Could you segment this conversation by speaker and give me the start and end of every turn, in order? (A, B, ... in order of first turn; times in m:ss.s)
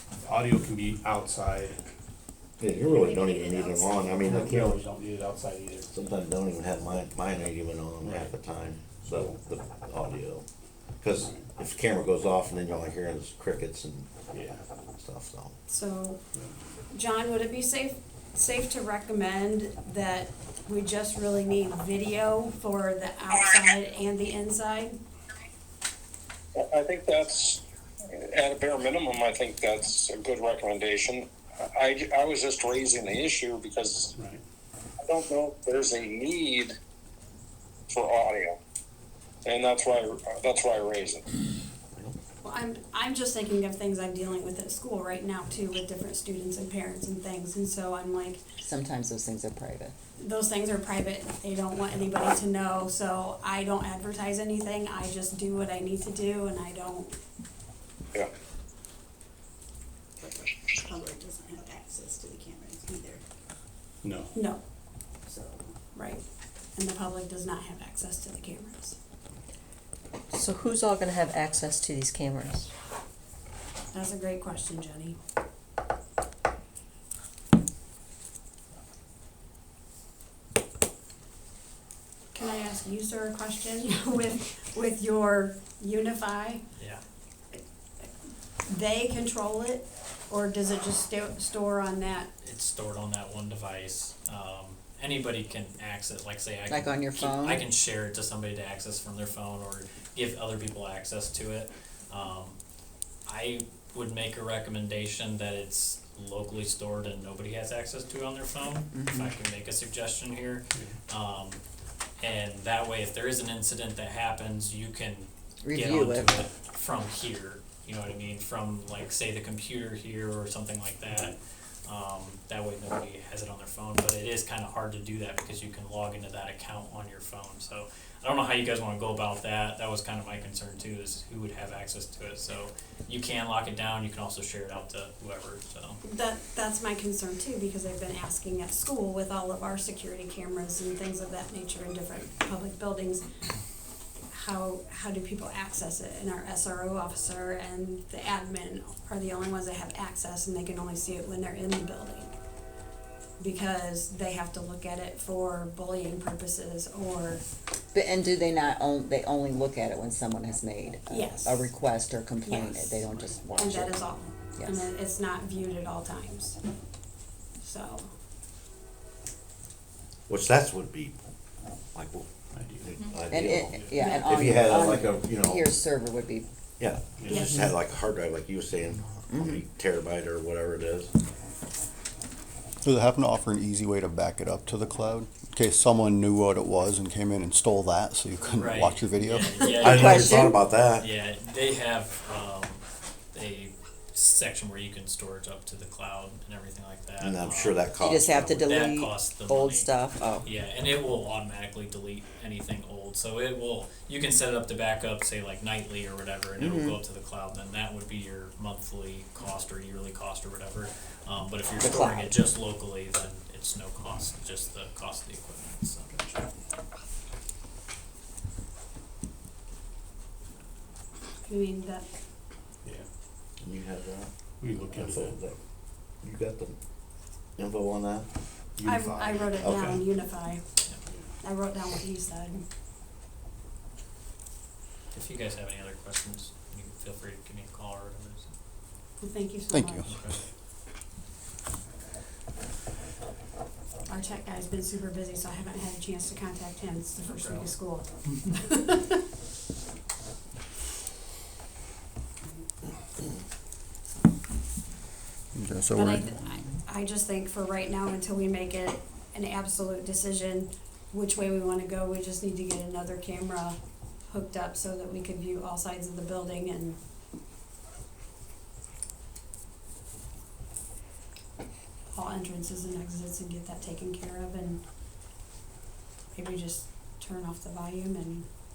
0:00.2-0:01.8 A
0:02.6-0:04.8 B
0:02.8-0:04.3 C
0:04.2-0:05.9 A
0:05.9-0:10.4 B
0:08.0-0:09.4 A
0:11.0-0:14.1 B
0:14.3-0:14.6 A
0:15.0-0:15.5 B
0:15.7-0:16.2 C
0:16.9-0:25.0 C
0:26.6-0:27.6 D
0:28.1-0:34.1 D
0:34.1-0:34.4 A
0:35.0-0:36.7 D
0:37.9-0:38.6 D
0:39.4-0:41.2 D
0:42.4-0:48.4 C
0:48.6-0:49.9 E
0:50.2-0:57.2 C
1:00.9-1:03.2 F
1:02.0-1:02.3 E
1:04.0-1:04.3 A
1:04.3-1:04.6 C
1:05.9-1:06.2 C
1:06.7-1:09.0 C
1:10.3-1:12.7 G
1:13.9-1:15.2 C
1:22.3-1:26.6 C
1:26.8-1:27.0 H
1:28.6-1:32.3 C
1:32.4-1:42.6 H
1:36.7-1:37.6 E
1:43.2-1:51.6 H
1:48.9-1:49.3 E
1:52.2-2:16.0 H
1:55.6-1:56.3 E
2:16.0-2:23.2 C
2:24.3-2:32.3 C
2:33.4-2:37.4 C
2:37.9-2:44.0 E
2:41.1-2:41.7 C
2:42.4-2:46.6 C
2:44.6-2:44.9 E
2:47.6-2:48.1 C
2:50.3-2:51.2 B
2:51.9-2:52.3 B
2:52.5-2:52.8 A
2:52.8-2:55.7 B
2:53.2-2:56.4 E
2:53.7-2:54.1 A
2:54.0-2:54.3 C
2:56.8-3:01.1 B
2:57.2-2:57.5 A
2:57.3-2:57.5 C
2:57.3-2:57.7 E
2:59.3-2:59.6 E
3:02.8-3:10.2 I
3:08.4-3:12.8 H
3:09.8-3:11.1 B
3:09.8-3:10.6 E
3:13.3-3:17.8 H
3:17.2-3:18.5 B
3:18.0-3:20.4 E
3:18.3-3:19.9 H
3:20.4-3:36.1 H
3:26.6-3:27.0 E
3:31.8-3:32.3 E
3:36.1-3:36.4 A
3:41.4-3:42.0 C
3:43.6-3:44.3 B
3:44.6-3:45.4 A
3:44.9-3:45.6 B
3:46.2-3:46.7 B
3:47.6-3:48.3 B
3:48.8-3:49.6 A
3:48.8-3:50.6 C
3:49.6-3:50.0 B
3:51.4-3:52.6 C
3:55.1-3:58.5 H
3:59.2-4:00.0 C
3:59.7-4:00.2 I
4:00.0-4:00.4 H
4:04.1-4:09.2 C
4:07.2-4:07.7 H
4:15.5-4:16.3 I
4:15.9-4:27.0 C
4:32.1-4:34.8 C
4:36.3-4:38.4 C